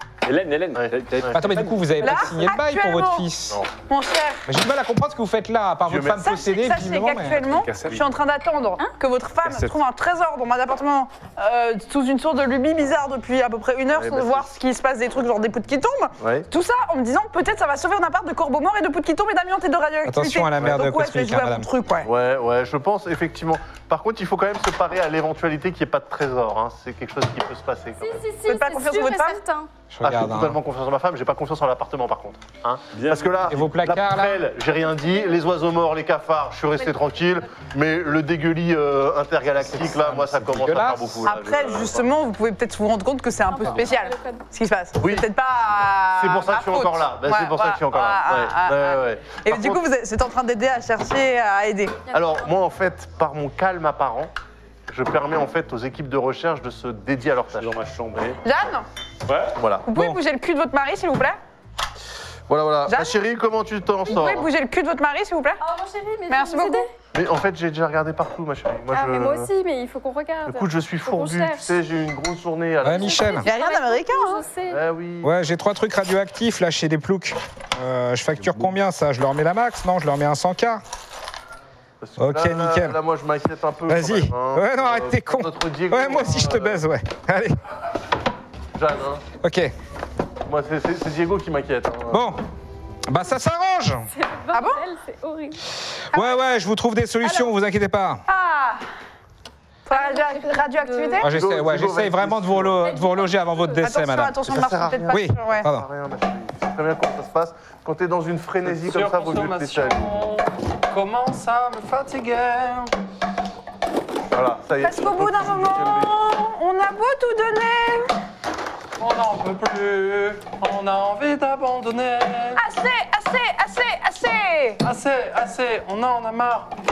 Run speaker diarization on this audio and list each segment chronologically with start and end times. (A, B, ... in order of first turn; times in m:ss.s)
0:00.2-0:02.1 A
0:00.8-0:01.4 B
0:01.3-0:03.6 C
0:02.0-0:04.4 D
0:04.5-0:07.4 C
0:05.9-0:06.4 B
0:06.3-0:22.1 D
0:07.4-0:08.0 A
0:09.4-0:09.8 A
0:13.9-0:14.5 B
0:16.2-0:16.5 B
0:20.0-0:21.7 C
0:20.6-0:20.9 B
0:22.0-0:28.2 B
0:28.0-0:29.7 E
0:28.5-0:29.4 D
0:29.9-0:30.6 C
0:30.0-0:42.1 B
0:32.9-0:33.6 A
0:33.5-0:34.5 C
0:39.6-0:41.3 C
0:41.2-0:52.0 D
0:43.5-0:44.4 E
0:45.0-0:45.3 B
0:46.1-0:49.8 B
0:52.1-0:54.3 B
0:54.9-0:58.2 B
0:57.5-0:58.4 A
0:58.4-0:58.9 D
0:59.3-0:59.6 A
0:59.6-0:59.9 B
0:59.8-1:01.4 D
1:02.5-1:04.5 B
1:02.9-1:03.2 D
1:04.1-1:05.6 D
1:05.6-1:06.9 E
1:06.3-1:06.9 D
1:07.1-1:09.5 B
1:08.9-1:11.7 E
1:10.5-1:13.4 B
1:12.8-1:13.5 C
1:12.8-1:14.8 E
1:13.4-1:14.4 D
1:14.7-1:15.3 B
1:15.2-1:20.8 C
1:22.0-1:26.8 B
1:22.2-1:23.0 C
1:23.9-1:27.6 C
1:28.8-1:29.2 B
1:29.4-1:29.7 C
1:30.5-1:32.2 B
1:32.1-1:32.4 C
1:33.0-1:34.1 C
1:34.1-1:35.6 E
1:34.5-1:34.9 D
1:36.1-1:38.2 C
1:36.1-1:36.4 E
1:38.3-1:38.8 D
1:39.9-1:41.3 D
1:39.9-1:41.2 E
1:41.2-1:45.9 C
1:41.2-1:42.8 B
1:42.8-1:43.8 E
1:43.8-1:45.7 D
1:44.5-1:50.2 B
1:48.7-1:52.9 F
1:54.3-1:56.1 B
1:54.8-1:58.2 D
1:59.0-2:02.6 F
2:02.6-2:04.8 D
2:04.8-2:06.7 F